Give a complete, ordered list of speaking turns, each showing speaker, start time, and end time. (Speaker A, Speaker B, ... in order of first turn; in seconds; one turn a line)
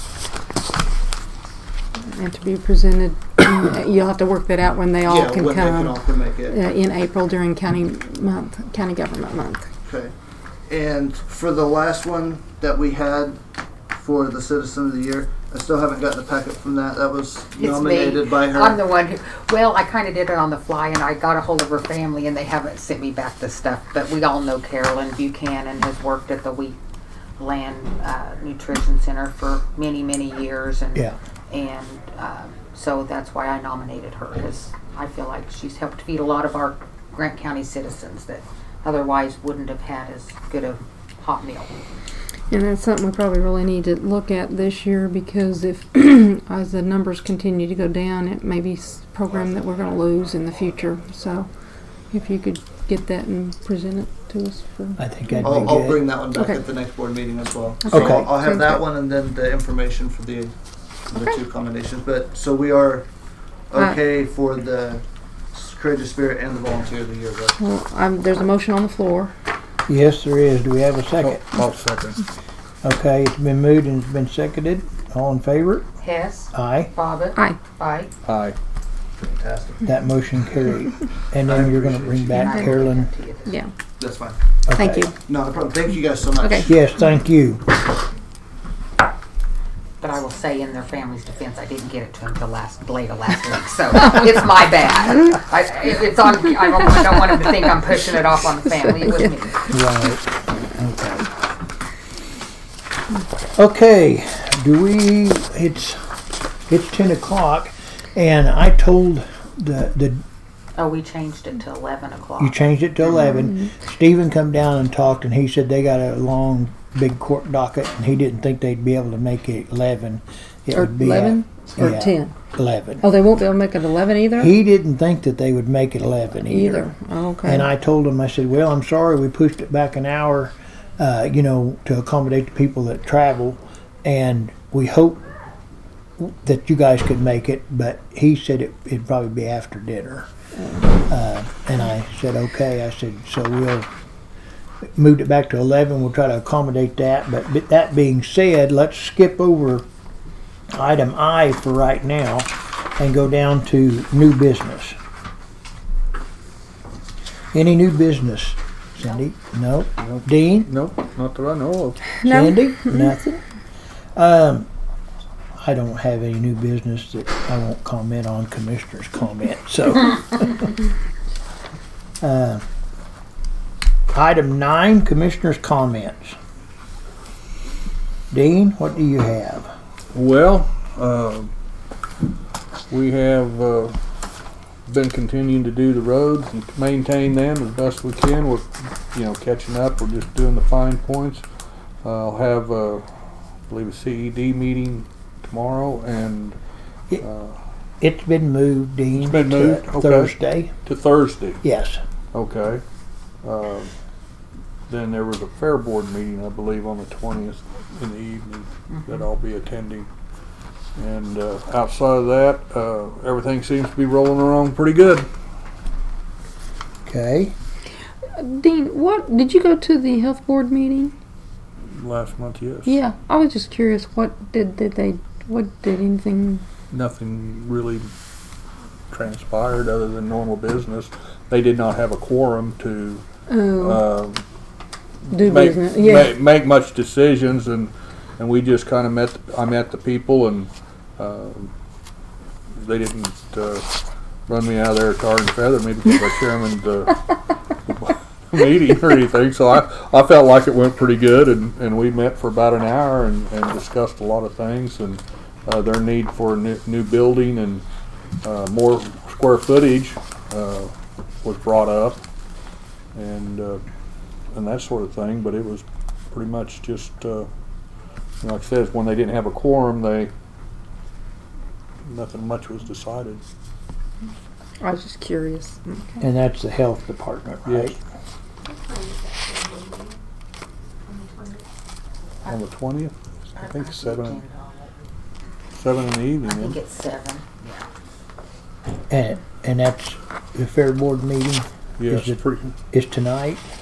Speaker A: 2.0-9.7
Speaker B: 5.0-6.6
Speaker B: 9.8-10.1
Speaker B: 10.7-13.4
Speaker B: 13.9-18.8
Speaker C: 17.6-26.8
Speaker C: 27.4-41.7
Speaker A: 42.5-51.5
Speaker A: 52.1-55.4
Speaker D: 55.0-56.1
Speaker B: 55.4-60.5
Speaker A: 56.3-56.6
Speaker A: 57.8-58.8
Speaker D: 57.9-58.3
Speaker B: 61.1-63.1
Speaker B: 63.7-67.6
Speaker A: 67.6-69.3
Speaker D: 69.9-71.4
Speaker E: 71.2-72.2
Speaker D: 72.8-75.9
Speaker C: 76.0-78.1
Speaker D: 76.5-76.9
Speaker E: 78.2-78.6
Speaker B: 79.2-79.9
Speaker D: 79.8-83.1
Speaker B: 81.4-82.6
Speaker C: 82.3-83.6
Speaker A: 82.4-82.7
Speaker A: 83.5-83.7
Speaker B: 84.0-84.4
Speaker D: 84.7-85.1
Speaker A: 84.8-85.1
Speaker B: 85.3-86.7
Speaker A: 86.4-86.7
Speaker D: 86.6-87.7
Speaker C: 90.0-99.7
Speaker D: 99.7-101.3
Speaker D: 103.5-106.0
Speaker D: 106.7-110.2
Speaker C: 110.8-112.6
Speaker D: 112.4-123.0
Speaker A: 113.3-113.7
Speaker A: 120.7-122.3
Speaker A: 123.0-124.5
Speaker D: 124.4-126.9
Speaker A: 126.4-127.7
Speaker D: 127.4-135.2
Speaker D: 136.2-140.3
Speaker A: 140.6-140.9
Speaker D: 141.0-143.9
Speaker D: 145.0-149.9
Speaker D: 150.7-154.9
Speaker D: 157.5-160.7
Speaker E: 160.0-162.2
Speaker A: 162.2-163.1
Speaker D: 162.2-163.4
Speaker D: 164.2-164.7
Speaker D: 165.6-170.7
Speaker D: 172.2-172.6
Speaker D: 174.1-176.4
Speaker D: 178.3-179.7
Speaker E: 180.1-181.5
Speaker E: 182.9-184.0
Speaker E: 184.9-191.4
Speaker E: 192.0-193.1
Speaker E: 193.7-196.6
Speaker E: 197.2-197.6
Speaker D: 198.0-200.7
Speaker E: 199.1-200.3
Speaker E: 200.8-201.6
Speaker D: 201.6-202.0
Speaker E: 202.3-202.8
Speaker E: 203.4-203.9
Speaker E: 204.9-210.1
Speaker C: 208.9-209.2
Speaker E: 210.9-215.3
Speaker D: 217.0-217.5
Speaker A: 218.3-221.1
Speaker E: 221.9-222.9
Speaker A: 222.8-226.6
Speaker E: 226.9-228.1
Speaker E: 229.1-233.2
Speaker A: 233.5-234.1
Speaker E: 233.8-234.4
Speaker E: 235.2-241.7
Speaker A: 235.3-236.4
Speaker E: 242.7-243.8
Speaker E: 244.5-247.2
Speaker E: 247.8-257.8
Speaker E: 258.4-260.9
Speaker E: 261.4-262.2
Speaker E: 263.1-263.8
Speaker E: 264.5-267.5
Speaker E: 268.4-270.3
Speaker E: 272.0-273.4
Speaker A: 274.8-276.2
Speaker D: 276.2-278.0
Speaker E: 277.6-278.0
Speaker A: 278.6-280.2
Speaker A: 281.1-281.6
Speaker E: 282.4-284.4
Speaker C: 283.5-284.9
Speaker E: 285.7-286.8
Speaker C: 286.4-287.8
Speaker D: 289.1-293.6
Speaker E: 292.0-292.7